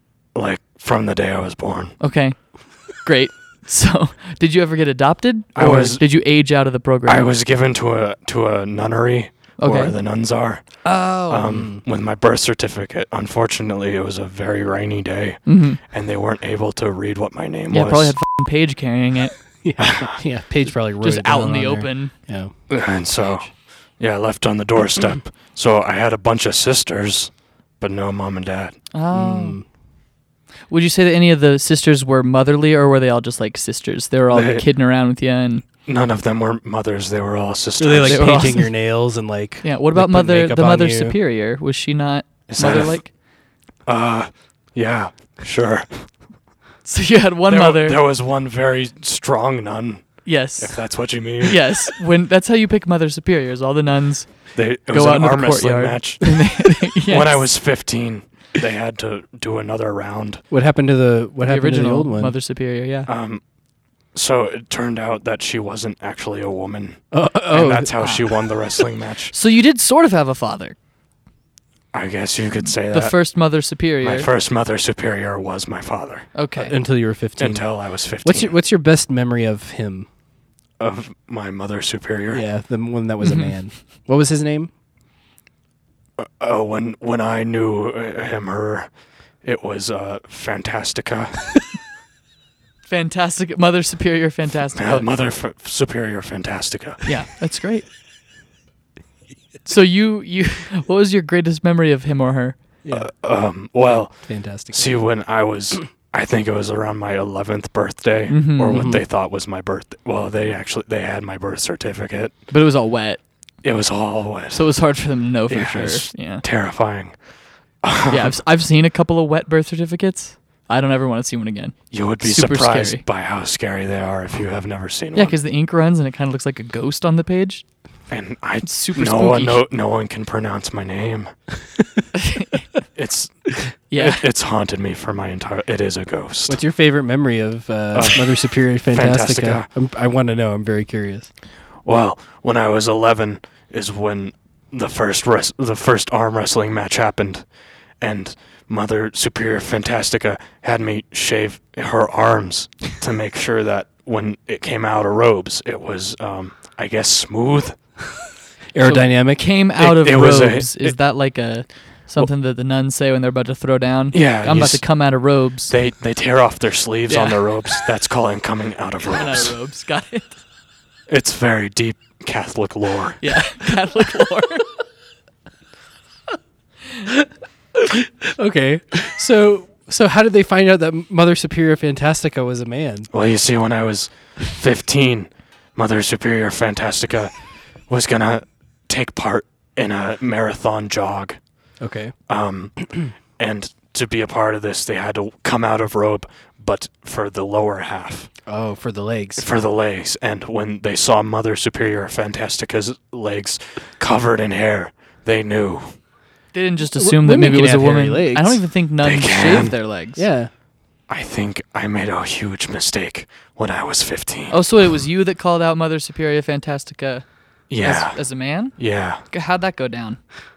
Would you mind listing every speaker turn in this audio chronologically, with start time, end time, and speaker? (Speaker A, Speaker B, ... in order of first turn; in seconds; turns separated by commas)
Speaker A: 0.3-1.9, Speaker B: 2.0-7.3, Speaker A: 5.5-6.0, Speaker A: 7.1-18.2, Speaker B: 9.6-10.0, Speaker B: 10.8-11.5, Speaker C: 11.5-11.8, Speaker B: 15.5-15.8, Speaker B: 17.7-19.4, Speaker C: 19.6-22.5, Speaker A: 19.8-20.1, Speaker B: 21.0-22.1, Speaker A: 22.7-28.8, Speaker B: 28.9-29.6, Speaker C: 29.1-29.7, Speaker B: 30.7-35.6, Speaker A: 34.3-34.6, Speaker A: 35.9-38.6, Speaker C: 37.8-41.2, Speaker B: 38.0-38.8, Speaker B: 39.6-43.1, Speaker A: 42.5-43.0, Speaker A: 43.9-46.1, Speaker B: 46.9-48.0, Speaker A: 47.5-51.9, Speaker B: 50.2-57.5, Speaker A: 54.5-60.4, Speaker C: 60.5-62.4, Speaker B: 61.4-63.1, Speaker A: 63.1-63.4, Speaker A: 64.1-69.3, Speaker C: 67.1-68.0, Speaker B: 68.0-68.2, Speaker B: 69.3-70.8, Speaker A: 71.9-76.3, Speaker B: 72.9-74.3, Speaker B: 76.3-76.8, Speaker C: 76.6-80.1, Speaker A: 77.4-78.5, Speaker A: 80.8-82.5, Speaker C: 82.3-84.7, Speaker B: 83.2-83.5, Speaker A: 86.2-88.9, Speaker A: 89.4-91.5, Speaker B: 92.9-95.1, Speaker A: 94.7-97.1, Speaker B: 97.0-97.9, Speaker B: 99.6-102.6, Speaker C: 102.8-103.1, Speaker A: 102.9-112.3, Speaker C: 103.8-105.1, Speaker B: 108.3-108.9, Speaker C: 108.7-109.1, Speaker B: 112.5-113.2, Speaker A: 113.6-114.8, Speaker B: 114.5-116.4, Speaker A: 115.5-117.2, Speaker A: 117.8-118.4, Speaker B: 118.1-123.0, Speaker A: 121.9-125.4, Speaker B: 125.1-127.6, Speaker A: 128.1-131.3, Speaker B: 128.6-129.6, Speaker B: 132.1-132.7, Speaker A: 132.9-136.6, Speaker B: 133.9-134.2, Speaker C: 136.5-141.3, Speaker A: 137.9-139.7, Speaker A: 141.8-157.8, Speaker C: 158.7-159.5, Speaker B: 158.8-165.8, Speaker A: 159.8-161.0, Speaker A: 164.1-169.6, Speaker B: 167.1-167.8, Speaker B: 169.1-170.4, Speaker A: 171.1-173.2, Speaker B: 173.2-174.7, Speaker C: 177.8-183.1, Speaker A: 183.1-187.4, Speaker A: 187.9-191.4, Speaker C: 191.8-192.1, Speaker A: 192.3-198.3, Speaker C: 198.5-199.4, Speaker A: 199.4-206.0, Speaker B: 206.5-210.2, Speaker C: 206.8-208.6, Speaker A: 209.0-209.8, Speaker C: 210.2-210.5, Speaker A: 211.1-214.6, Speaker B: 214.5-220.2, Speaker A: 217.7-219.2